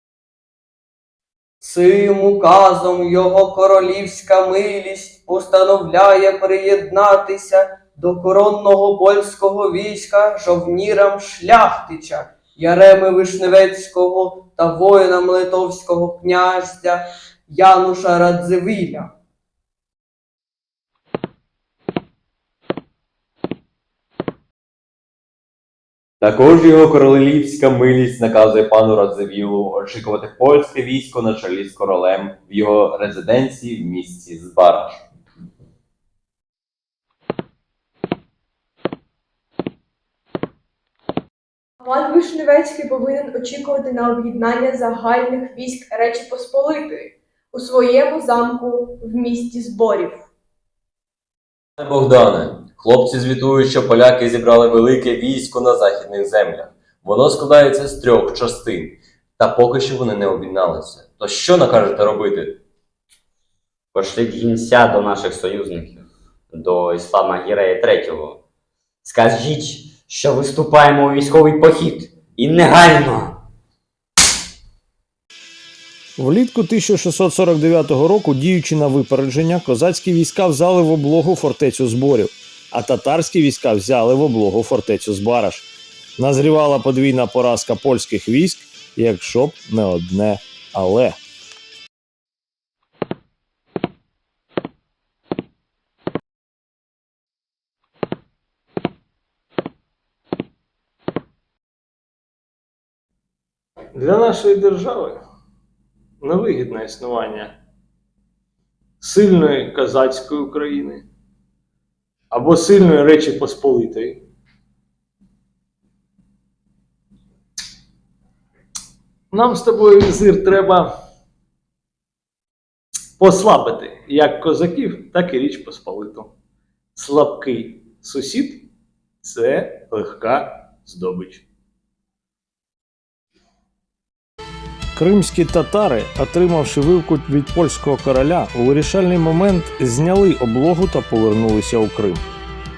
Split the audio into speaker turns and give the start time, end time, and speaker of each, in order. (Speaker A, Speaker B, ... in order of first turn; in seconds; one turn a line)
Speaker A: 1.6-19.1
Speaker B: 26.2-35.0
Speaker C: 41.8-50.3
Speaker B: 51.8-62.6
Speaker D: 63.9-68.4
Speaker D: 69.0-73.4
Speaker E: 76.2-85.7
Speaker E: 86.2-91.2
Speaker E: 103.9-105.2
Speaker E: 106.2-107.6
Speaker E: 109.0-111.0
Speaker E: 112.3-114.2
Speaker E: 119.3-120.9
Speaker E: 123.2-126.3
Speaker E: 127.0-128.7
Speaker E: 129.2-131.4
Speaker E: 134.9-142.2